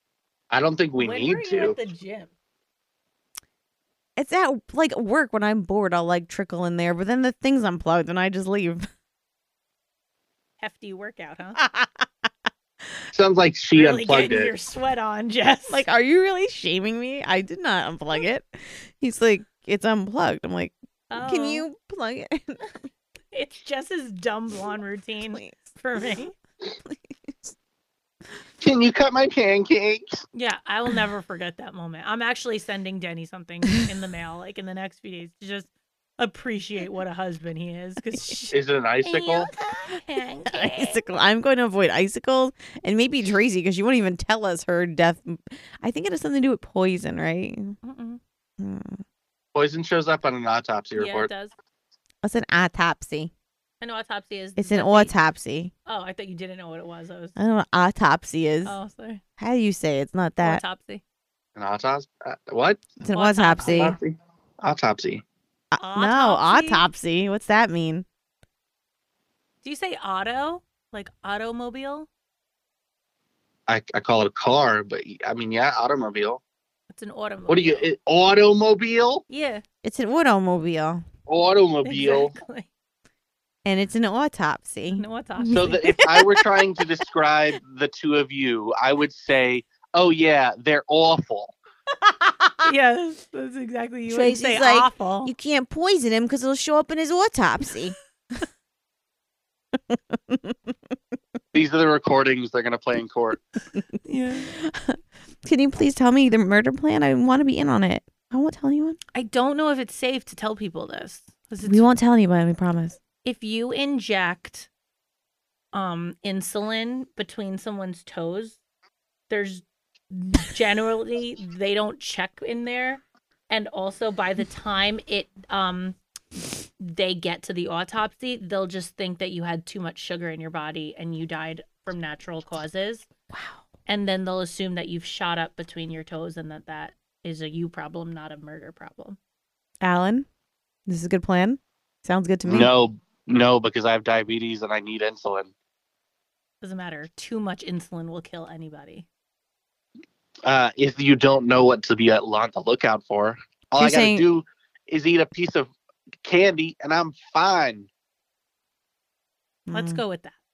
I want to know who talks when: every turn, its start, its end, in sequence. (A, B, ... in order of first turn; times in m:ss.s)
0:00.5-0:01.8 A
0:01.0-0:02.3 B
0:04.2-0:08.8 C
0:10.6-0:11.6 B
0:11.6-0:12.0 C
0:13.1-0:14.5 A
0:13.7-0:15.8 B
0:15.7-0:22.7 C
0:21.1-0:21.6 B
0:23.3-0:26.3 B
0:25.3-0:25.7 C
0:26.8-0:27.5 C
0:28.6-0:30.2 A
0:30.3-0:41.0 B
0:38.5-0:39.5 A
0:40.5-0:47.8 C
0:47.8-0:48.2 B
0:48.6-0:49.0 C
0:49.5-0:51.3 A
0:50.9-0:51.5 B
0:52.2-0:53.3 C
0:53.8-0:55.1 B
0:54.6-0:55.7 C
0:55.8-0:57.3 B
0:57.4-0:58.8 C
0:58.6-0:59.2 B
0:59.4-1:00.6 C
1:00.4-1:01.0 B
1:01.6-1:02.8 A
1:03.0-1:04.0 C
1:03.1-1:03.9 B
1:03.6-1:05.2 A
1:05.7-1:08.0 C
1:05.8-1:06.8 B
1:09.6-1:12.1 B
1:13.7-1:16.4 A
1:16.9-1:17.9 B
1:17.5-1:19.2 A
1:19.3-1:19.6 B
1:19.8-1:21.0 C
1:21.3-1:22.3 A
1:21.8-1:22.7 B
1:23.6-1:26.8 C
1:25.0-1:25.8 B
1:25.5-1:31.6 A
1:32.6-1:35.3 B
1:34.1-1:37.9 C
1:39.9-1:40.6 C
1:41.5-1:43.4 A
1:44.0-1:44.5 B
1:44.5-1:49.0 C
1:49.1-1:51.9 B
1:51.6-1:53.0 C
1:53.2-1:54.7 B
1:55.7-1:58.6 B
1:59.3-2:06.0 B
2:06.8-2:13.0 B
2:13.3-2:13.6 C
2:13.8-2:19.2 B
2:19.8-2:20.3 C
2:20.9-2:22.7 C
2:22.4-2:25.5 A
2:26.6-2:29.1 B
2:30.4-2:35.7 A
2:33.8-2:34.3 C
2:36.2-2:37.9 A
2:39.7-2:40.0 C
2:39.7-2:40.4 B